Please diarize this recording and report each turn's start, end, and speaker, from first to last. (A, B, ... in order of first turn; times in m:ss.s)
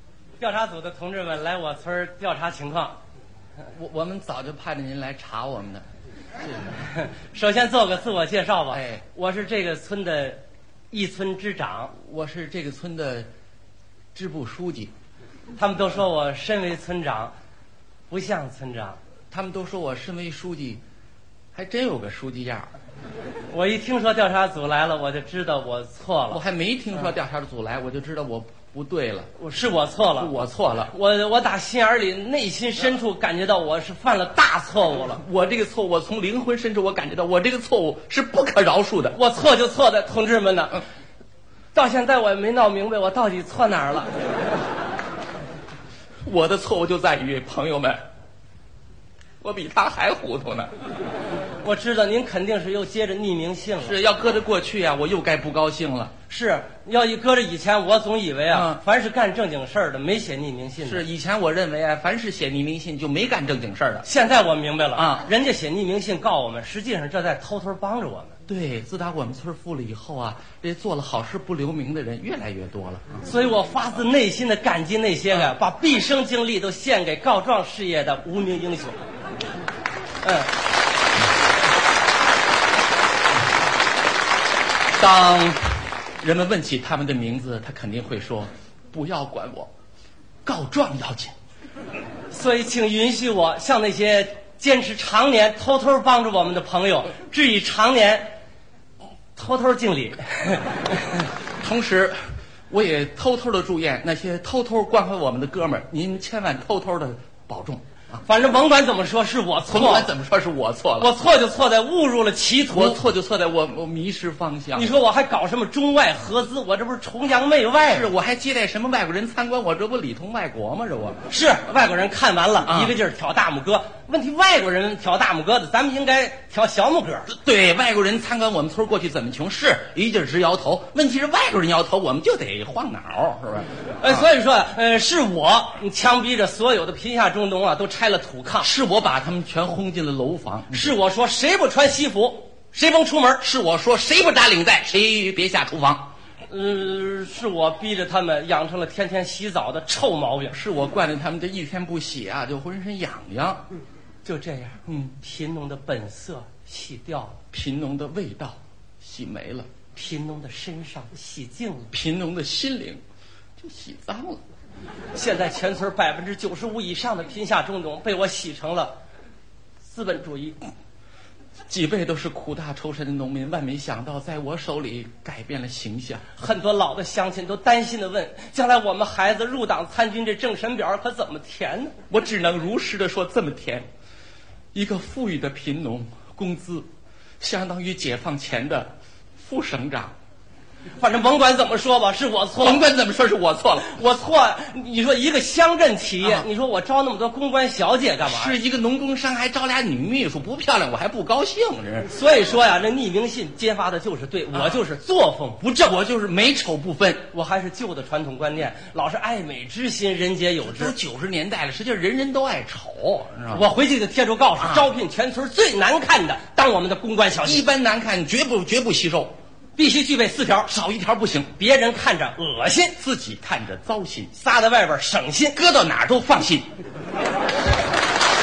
0:00.4-0:03.0 A
0:03.7-0:05.8 B
0:06.7-0:11.9 A
0:08.7-0:09.0 B
0:11.9-0:13.3 B
0:14.1-0:14.9 B
0:15.6-0:17.3 A
0:18.1-0:19.0 A
0:19.3-0:20.8 B
0:21.5-0:22.7 B
0:23.5-0:26.4 A
0:26.3-0:29.3 B
0:29.4-0:30.3 A
0:30.2-0:30.9 B
0:30.9-0:35.2 A
0:35.1-0:39.2 B
0:39.1-0:40.8 A
0:41.7-0:44.1 A
0:46.2-0:48.0 B
0:49.4-0:50.7 B
0:51.6-0:54.0 A
0:53.8-0:56.1 B
0:56.3-1:01.1 A
0:58.5-0:58.8 B
1:00.8-1:04.0 B
1:04.0-1:08.4 A
1:05.0-1:05.2 B
1:08.5-1:13.2 B
1:13.2-1:19.0 A
1:20.2-1:20.5 A
1:24.9-1:25.6 B
1:26.2-1:29.7 B
1:30.4-1:31.3 B
1:32.3-1:38.3 A
1:39.3-1:41.3 A
1:41.6-1:42.2 B
1:42.7-1:47.8 B
1:48.2-1:50.1 A
1:49.7-1:51.1 B
1:51.0-1:53.0 A
1:52.7-1:54.9 B
1:54.7-1:58.1 A
1:57.8-2:01.2 B
2:01.3-2:07.3 A
2:02.6-2:03.0 B
2:07.3-2:14.2 B
2:14.0-2:18.7 A
2:18.6-2:21.0 B
2:20.7-2:23.4 A
2:23.4-2:26.1 B
2:26.5-2:30.6 A
2:30.5-2:33.6 B
2:34.2-2:37.4 A
2:34.9-2:35.2 B
2:37.5-2:39.7 B
2:39.9-2:41.9 A
2:41.9-2:43.0 B
2:43.6-2:44.4 B
2:45.1-2:48.9 A
2:49.8-2:50.6 A
2:51.7-2:56.2 B
2:56.4-3:02.0 A
3:02.1-3:03.9 B
3:04.7-3:06.9 B
3:07.4-3:10.1 B
3:11.0-3:12.8 A
3:12.6-3:13.9 B
3:13.8-3:18.6 A
3:18.2-3:22.1 B
3:22.0-3:25.8 A
3:25.8-3:27.3 B
3:27.3-3:30.9 A
3:30.6-3:33.6 B
3:33.5-3:37.7 A
3:34.6-3:34.9 B
3:37.4-3:39.4 B
3:39.8-3:40.7 A
3:40.7-3:41.5 B
3:41.6-3:43.0 A
3:43.0-3:44.3 B
3:44.4-3:45.6 A
3:45.5-3:46.7 B